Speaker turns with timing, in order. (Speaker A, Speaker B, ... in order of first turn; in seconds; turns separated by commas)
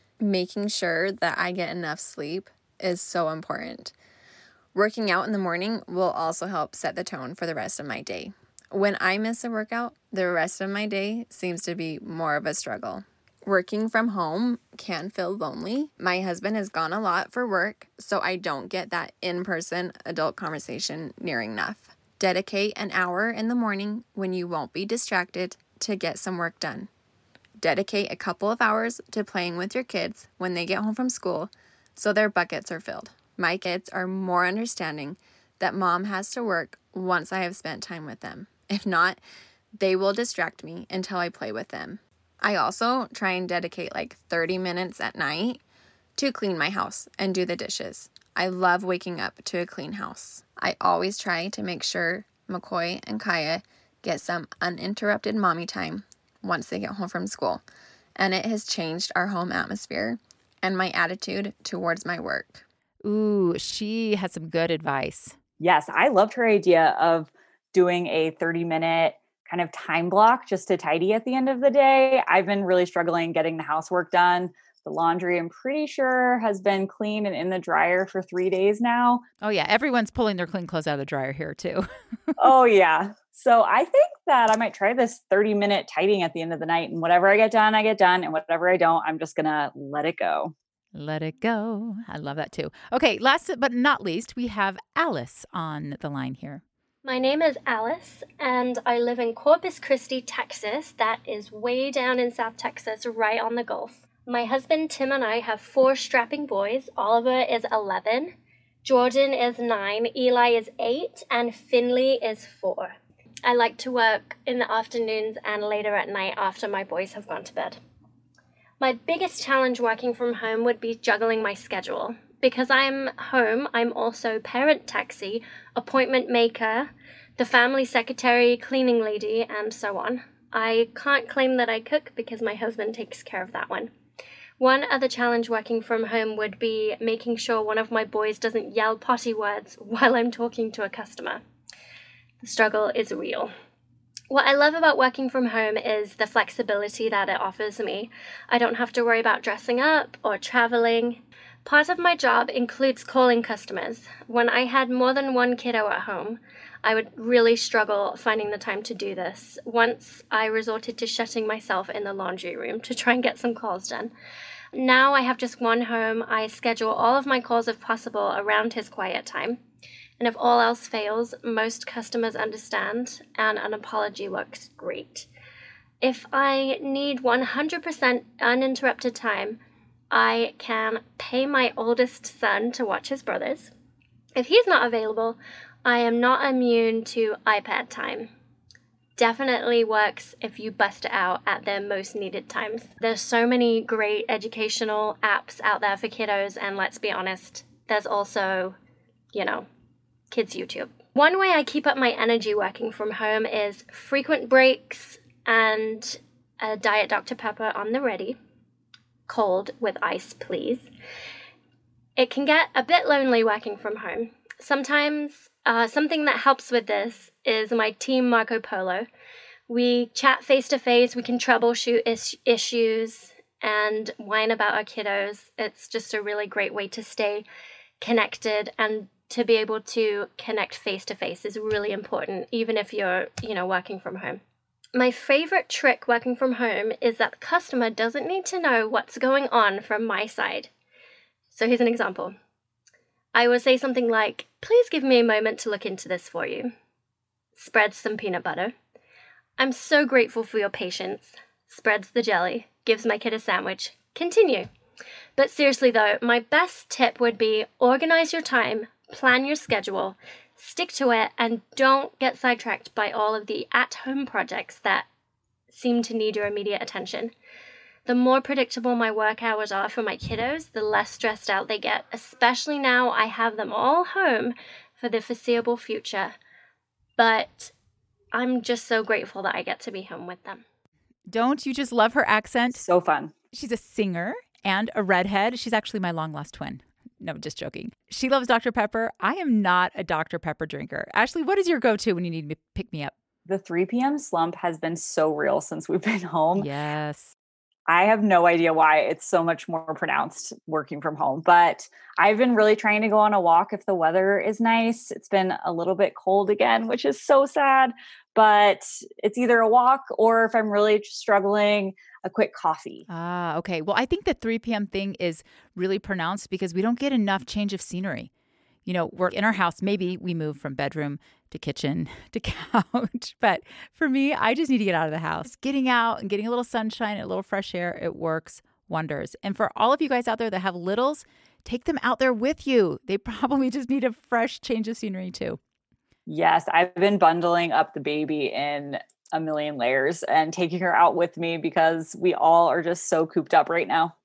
Speaker A: 0.2-3.9, Speaker A: 4.7-26.9, Speaker A: 27.6-39.2, Speaker A: 39.8-45.6, Speaker A: 46.1-57.6, Speaker A: 58.1-62.6, Speaker B: 63.0-65.3, Speaker C: 65.6-79.2, Speaker B: 79.4-82.5, Speaker C: 82.4-90.5, Speaker B: 90.9-96.6, Speaker D: 97.0-117.8, Speaker D: 118.8-133.9, Speaker D: 134.6-141.4, Speaker D: 142.4-143.5, Speaker D: 144.3-164.1, Speaker D: 164.7-169.6, Speaker D: 170.2-175.3, Speaker D: 176.0-179.6, Speaker D: 180.1-183.7, Speaker D: 184.3-188.3, Speaker D: 189.2-198.8, Speaker D: 199.3-199.7, Speaker D: 200.3-208.4, Speaker D: 209.3-210.9, Speaker D: 212.2-219.1, Speaker D: 219.7-227.4, Speaker D: 228.0-234.4, Speaker D: 234.9-240.7, Speaker D: 241.5-242.3, Speaker D: 243.3-246.7, Speaker D: 247.6-248.7, Speaker D: 249.6-254.7, Speaker D: 255.4-265.1, Speaker D: 265.7-267.3, Speaker D: 268.1-276.3, Speaker D: 277.2-277.7, Speaker D: 278.3-280.6, Speaker B: 281.3-282.8, Speaker C: 282.7-283.3, Speaker B: 283.5-293.1, Speaker C: 293.4-296.7, Speaker B: 296.6-297.3, Speaker C: 297.9-313.0, Speaker B: 313.1-318.3, Speaker B: 318.9-335.6, Speaker C: 336.2-344.1